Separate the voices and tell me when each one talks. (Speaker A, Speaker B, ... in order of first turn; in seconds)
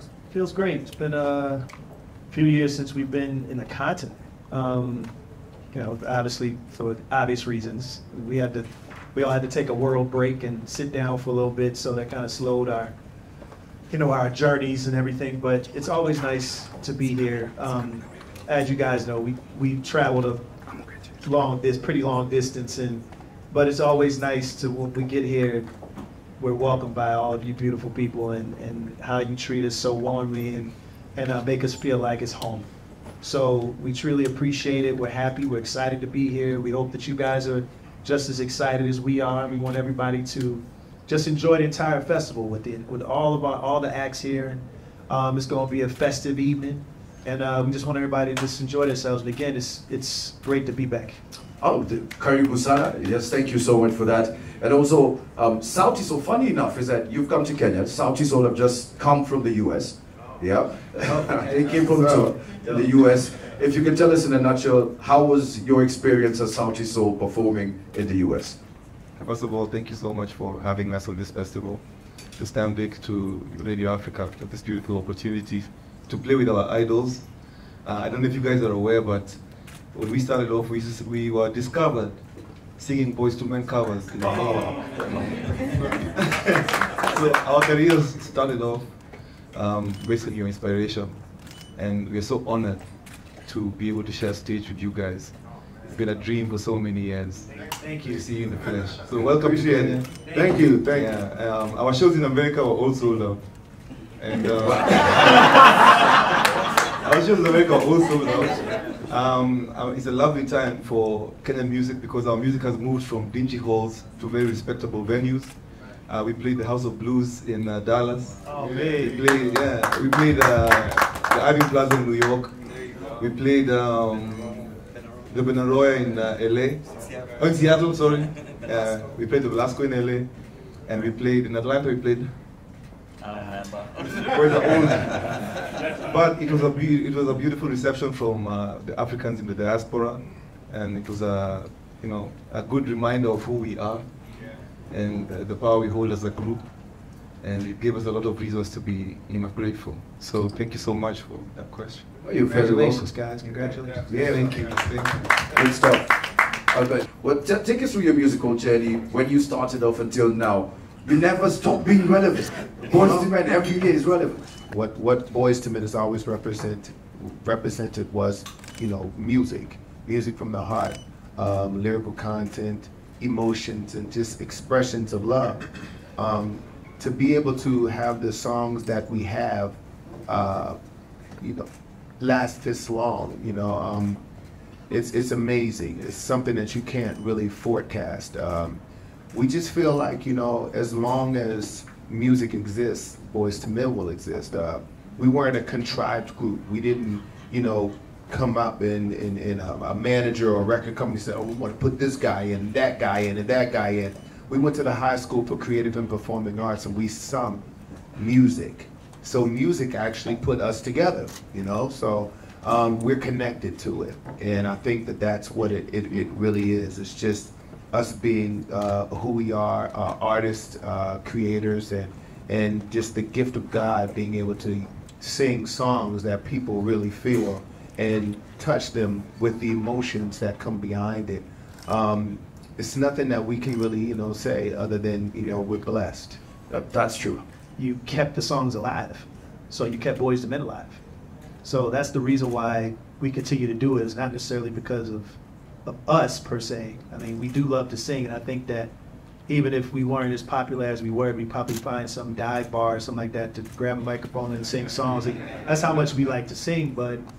Speaker A: 0.3-1.6, 2.3-5.1, 5.7-12.9, 13.9-20.4, 21.2-25.7, 26.4-32.7, 33.2-51.2, 61.1-61.4, 97.8-98.2, 118.4-119.2, 152.4-154.5, 237.8-241.0, 241.6-248.9, 249.5-257.2
Speaker B: 51.6-68.6, 99.4-101.0, 104.6-105.2, 152.2-153.1, 154.1-154.6, 155.5-156.1, 156.7-164.4, 236.7-237.4
Speaker C: 69.2-71.8, 72.4-77.3, 77.8-79.4, 79.9-82.2, 82.8-88.9, 89.5-91.2, 91.7-92.8, 93.4-95.3, 95.9-103.4, 104.2-106.0, 107.0-115.5, 116.1-122.5, 123.2-130.3, 130.8-132.3, 134.0-144.1, 144.9-146.7, 147.4-153.1, 154.1-155.3
Speaker D: 164.7-180.8, 181.4-181.7, 182.2-184.2, 184.9-188.8, 189.3-207.6, 208.2-236.4